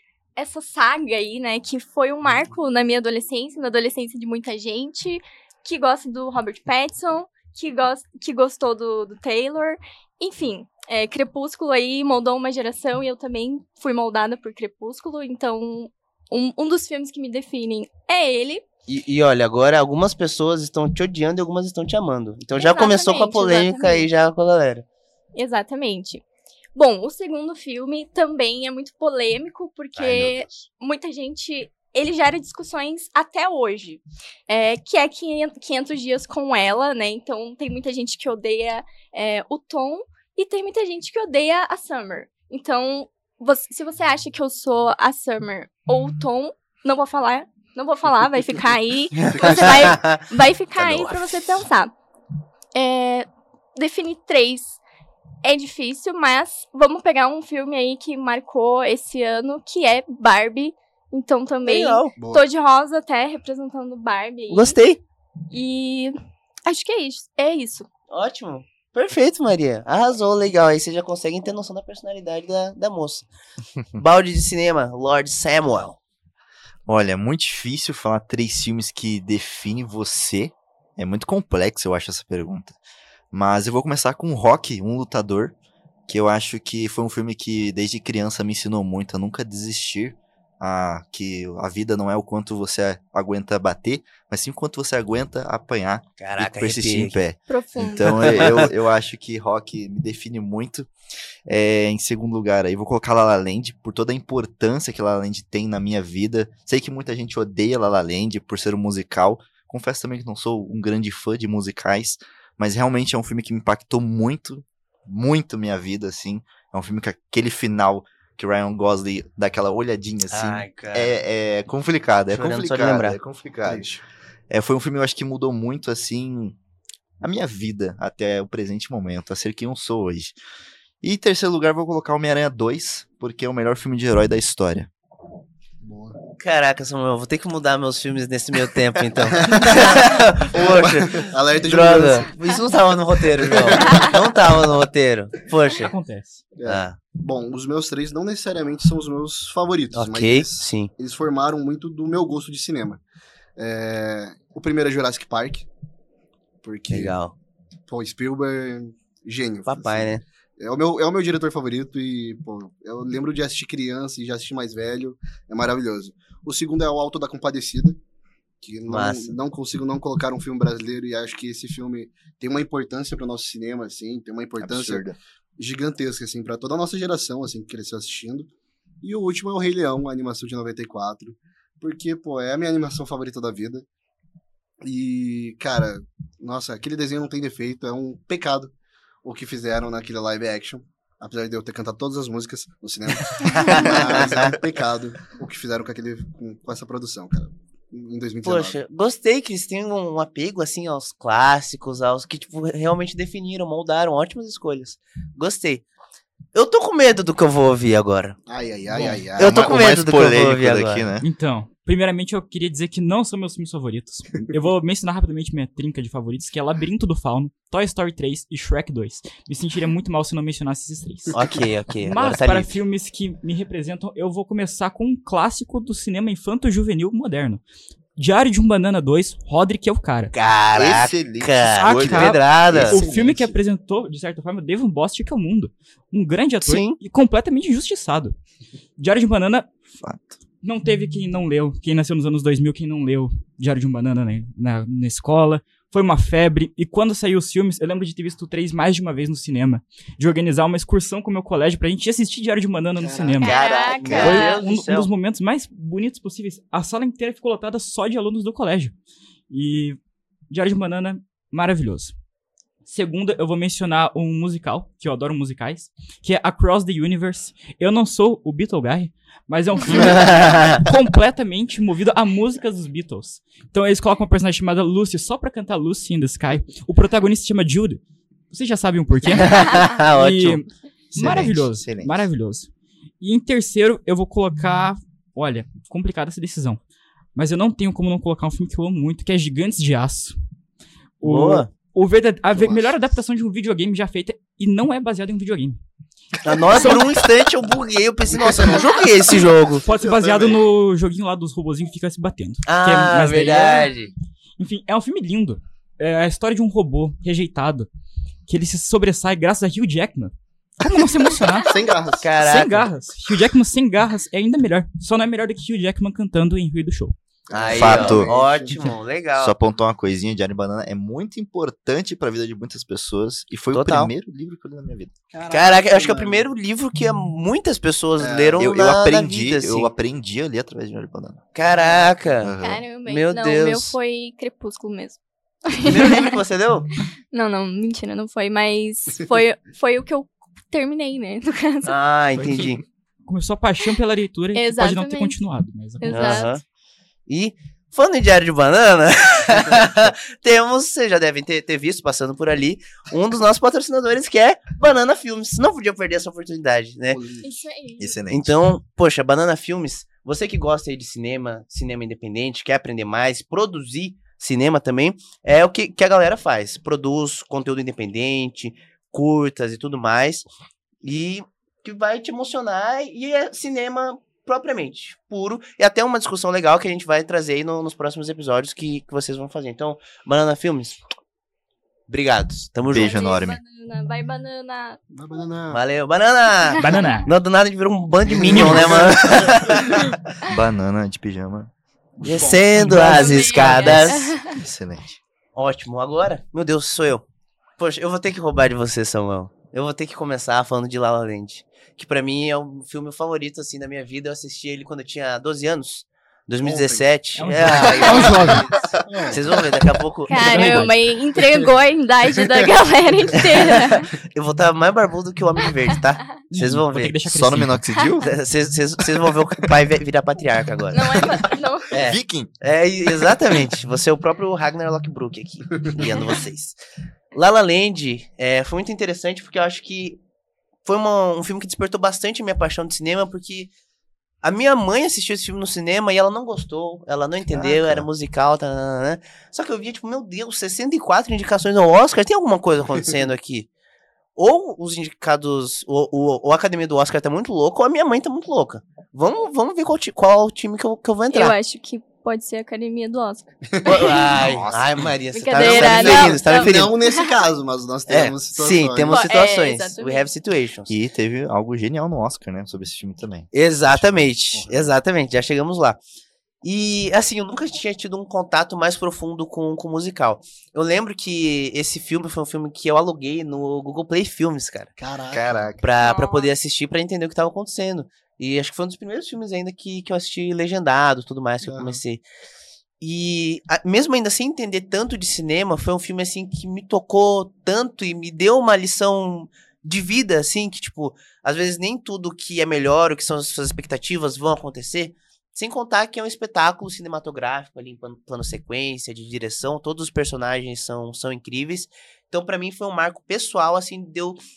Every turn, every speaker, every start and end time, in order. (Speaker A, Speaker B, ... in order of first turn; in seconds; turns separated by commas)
Speaker A: 0.4-18.6, Speaker B: 18.9-24.9, Speaker A: 22.6-24.1, Speaker A: 25.4-26.2, Speaker A: 26.8-51.9, Speaker B: 30.0-30.6, Speaker B: 49.2-50.3, Speaker C: 49.4-49.9, Speaker B: 50.8-51.3, Speaker A: 52.8-54.8, Speaker A: 55.4-64.8, Speaker B: 61.7-62.1, Speaker C: 62.2-62.5, Speaker B: 64.5-65.0, Speaker A: 65.5-66.1, Speaker A: 66.7-67.9, Speaker B: 68.1-73.3, Speaker B: 74.0-76.0, Speaker D: 76.9-82.8, Speaker D: 83.3-85.5, Speaker D: 86.1-100.9, Speaker B: 96.2-97.2, Speaker A: 97.5-98.3, Speaker B: 98.0-98.7, Speaker D: 101.5-123.9, Speaker B: 120.3-121.2, Speaker B: 122.3-123.2, Speaker C: 123.7-124.0, Speaker D: 124.5-126.6, Speaker D: 127.2-130.3, Speaker D: 131.0-134.9, Speaker C: 135.8-136.2, Speaker B: 136.4-145.9, Speaker C: 139.4-142.3, Speaker C: 143.3-144.2, Speaker E: 145.8-146.4, Speaker C: 146.6-153.0, Speaker B: 146.7-147.0, Speaker B: 149.9-150.9, Speaker C: 153.6-155.7, Speaker C: 156.6-157.2, Speaker B: 156.9-157.3, Speaker C: 157.9-168.0, Speaker B: 159.7-160.2, Speaker C: 168.6-178.5, Speaker B: 168.9-169.3, Speaker D: 174.6-175.2, Speaker C: 179.0-183.8, Speaker C: 184.8-198.8, Speaker B: 193.4-194.5, Speaker B: 198.4-205.9, Speaker B: 206.5-208.4, Speaker C: 208.5-209.7, Speaker E: 208.9-209.2, Speaker D: 209.4-211.3, Speaker B: 209.4-211.1, Speaker E: 211.2-221.4, Speaker B: 221.3-222.8, Speaker E: 222.0-227.6, Speaker E: 228.2-230.3, Speaker B: 230.3-233.0, Speaker D: 230.7-233.1, Speaker E: 231.8-238.4, Speaker C: 232.9-233.5, Speaker B: 236.7-237.0, Speaker E: 239.0-239.7, Speaker D: 239.9-240.4, Speaker E: 240.6-253.6, Speaker C: 253.0-253.4, Speaker A: 253.4-254.6, Speaker D: 253.4-254.4, Speaker B: 253.5-255.1, Speaker E: 254.1-258.9, Speaker E: 259.5-260.0, Speaker E: 260.5-262.1, Speaker E: 262.9-282.7, Speaker B: 269.9-270.9, Speaker B: 279.3-280.6, Speaker D: 281.1-282.3, Speaker E: 283.2-286.8, Speaker E: 287.4-290.4, Speaker E: 291.2-295.8, Speaker B: 291.2-291.7, Speaker C: 292.5-292.9, Speaker B: 296.4-299.8, Speaker C: 298.3-298.9, Speaker C: 299.8-300.6, Speaker E: 299.9-303.9, Speaker B: 302.6-304.1, Speaker E: 304.6-307.9, Speaker E: 308.5-317.1, Speaker C: 311.6-312.3, Speaker B: 312.2-312.9, Speaker C: 317.5-318.8, Speaker B: 317.5-319.6, Speaker D: 317.7-318.3, Speaker D: 319.4-325.1, Speaker B: 323.7-324.1, Speaker C: 325.3-326.5, Speaker B: 325.5-329.9, Speaker C: 328.2-328.7, Speaker D: 328.6-331.4, Speaker B: 331.6-332.5, Speaker C: 331.7-332.2, Speaker D: 332.4-332.8, Speaker A: 332.6-336.3, Speaker B: 333.1-334.0, Speaker B: 335.8-336.9, Speaker A: 337.3-341.9, Speaker B: 341.8-342.8, Speaker E: 342.4-346.5, Speaker A: 344.5-345.4, Speaker A: 346.0-346.6, Speaker B: 346.1-346.6, Speaker B: 347.3-357.2, Speaker C: 357.1-357.5, Speaker A: 357.4-358.1, Speaker D: 358.0-358.6, Speaker B: 358.3-370.5, Speaker B: 371.0-381.0, Speaker B: 382.1-383.2, Speaker D: 382.9-383.6, Speaker A: 382.9-385.0, Speaker C: 385.1-385.8, Speaker B: 385.7-390.1, Speaker A: 386.7-387.2, Speaker E: 386.8-387.3, Speaker C: 388.3-390.0, Speaker E: 388.4-389.0, Speaker D: 390.4-391.7, Speaker B: 392.2-394.4, Speaker C: 392.2-393.6, Speaker E: 392.7-394.0, Speaker A: 393.0-394.6, Speaker D: 394.4-395.2, Speaker B: 395.6-397.2, Speaker B: 397.8-410.9, Speaker C: 406.6-407.1, Speaker E: 407.4-408.7, Speaker C: 407.7-409.7, Speaker A: 410.3-414.1, Speaker E: 410.4-411.0, Speaker B: 413.4-417.1, Speaker E: 416.5-417.8, Speaker D: 417.2-418.3, Speaker B: 418.2-421.3, Speaker A: 420.9-421.9, Speaker B: 421.9-426.8, Speaker D: 422.0-422.5, Speaker B: 427.3-430.2, Speaker B: 430.9-433.7, Speaker B: 434.4-443.7, Speaker D: 437.5-438.1, Speaker B: 444.4-451.6, Speaker A: 451.3-454.2, Speaker C: 453.7-454.3, Speaker B: 453.9-457.0, Speaker D: 454.3-455.1, Speaker A: 455.3-457.4, Speaker C: 455.5-459.3, Speaker B: 458.1-460.9, Speaker A: 459.1-460.3, Speaker D: 460.9-464.2, Speaker B: 463.5-466.0, Speaker C: 464.6-464.8, Speaker B: 466.6-474.9, Speaker C: 475.0-475.7, Speaker D: 475.3-475.8, Speaker B: 475.8-482.2, Speaker A: 476.0-476.5, Speaker C: 481.6-482.0, Speaker B: 483.0-504.4